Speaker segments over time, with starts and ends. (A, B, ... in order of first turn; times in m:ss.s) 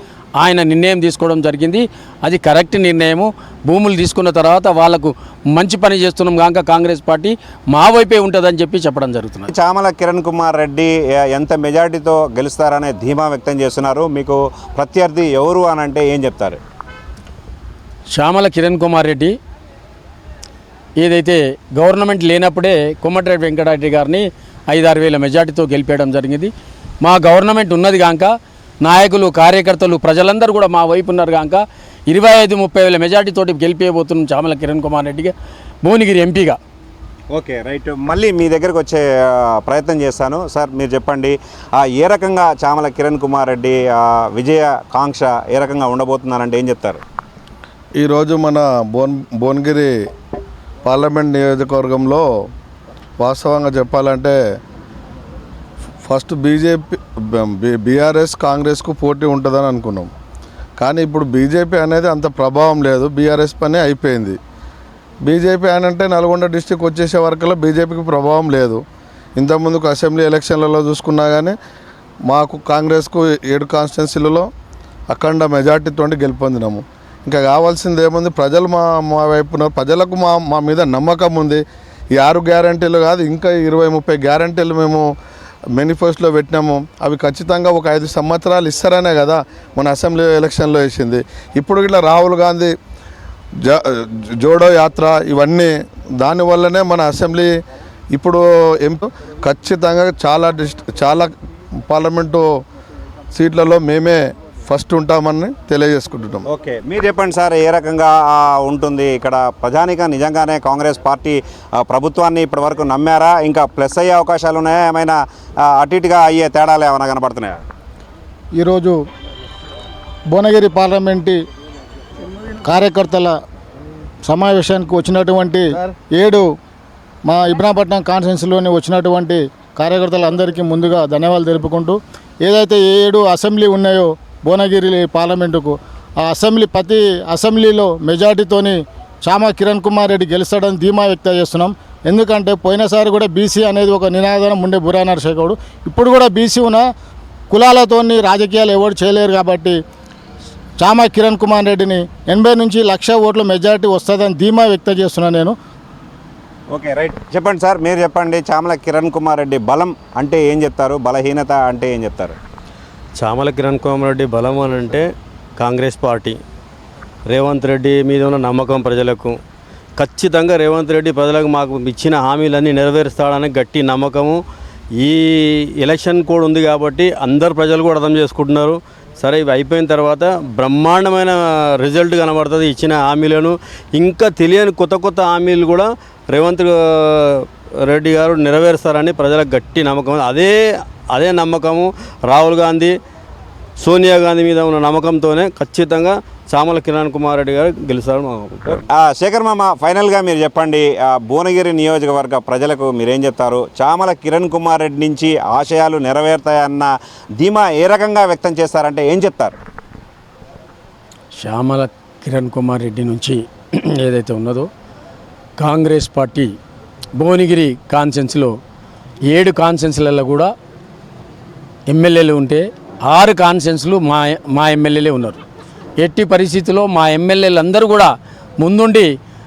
0:00.4-0:09.5 A
0:09.5-0:16.6 B
0:18.1-0:19.3 A
0:21.0-0:28.3 A
0:28.8-0:36.6 A
0:37.3-0:47.0 B
0:48.0-0:49.9 C
0:50.8-0:52.2 C
0:53.2-0:54.3 C
0:56.0-1:00.1 C
1:00.8-1:04.4 C
1:05.2-1:08.8 C
1:09.4-1:11.6 C
1:12.3-1:14.5 C
1:15.1-1:21.6 C
1:22.2-1:25.1 C
1:25.7-1:32.7 C
1:33.6-1:37.5 C
1:38.1-1:41.3 C
1:41.9-1:42.4 C
1:43.3-1:46.4 C
1:46.5-1:55.2 B
1:55.7-1:57.6 B
1:58.6-1:59.0 D
2:00.3-2:01.4 D
2:02.6-2:03.4 D
2:04.2-2:06.5 D
2:07.2-2:26.8 D
2:27.5-2:29.8 D
2:30.8-2:35.5 D
2:36.7-2:42.4 B
2:43.2-2:45.1 E
2:45.6-2:46.4 E
2:47.3-2:49.4 E
2:50.0-2:54.4 E
2:55.0-3:13.0 E
3:13.8-3:18.8 E
3:18.8-3:29.6 B
3:31.4-3:34.7 A
3:35.6-3:36.5 A
3:37.2-3:38.5 A
3:39.3-3:40.5 A
3:41.9-3:45.4 A
3:46.0-3:49.1 A